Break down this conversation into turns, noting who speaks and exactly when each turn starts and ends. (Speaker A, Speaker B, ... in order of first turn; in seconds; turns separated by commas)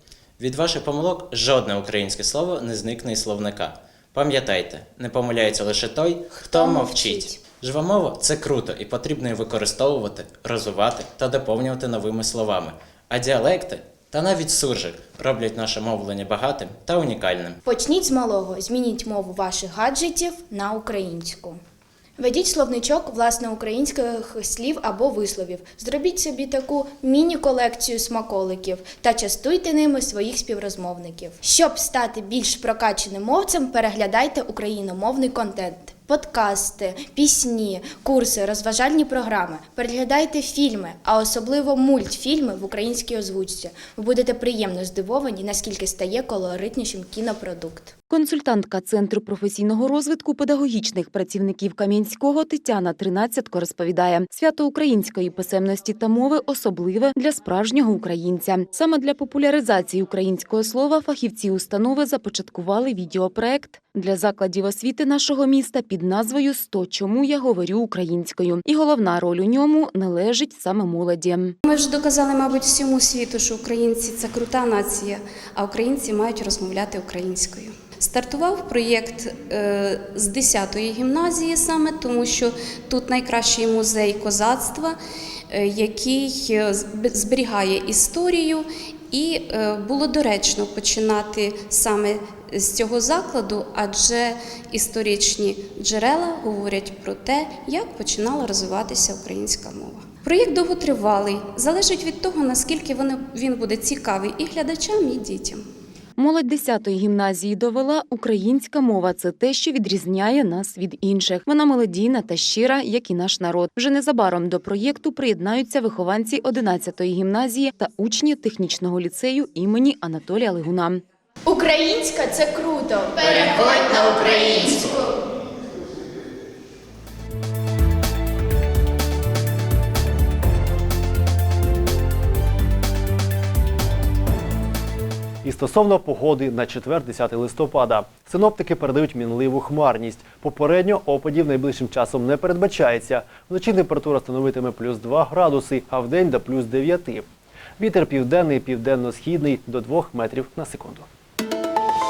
Speaker A: 0.4-17.6, Speaker B: 6.5-7.0, Speaker B: 17.6-21.6, Speaker B: 22.2-47.9, Speaker C: 48.1-71.5, Speaker D: 71.6-85.0, Speaker D: 85.5-105.6, Speaker C: 106.2-121.0, Speaker B: 121.5-125.2, Speaker E: 135.4-147.2, Speaker E: 147.8-151.1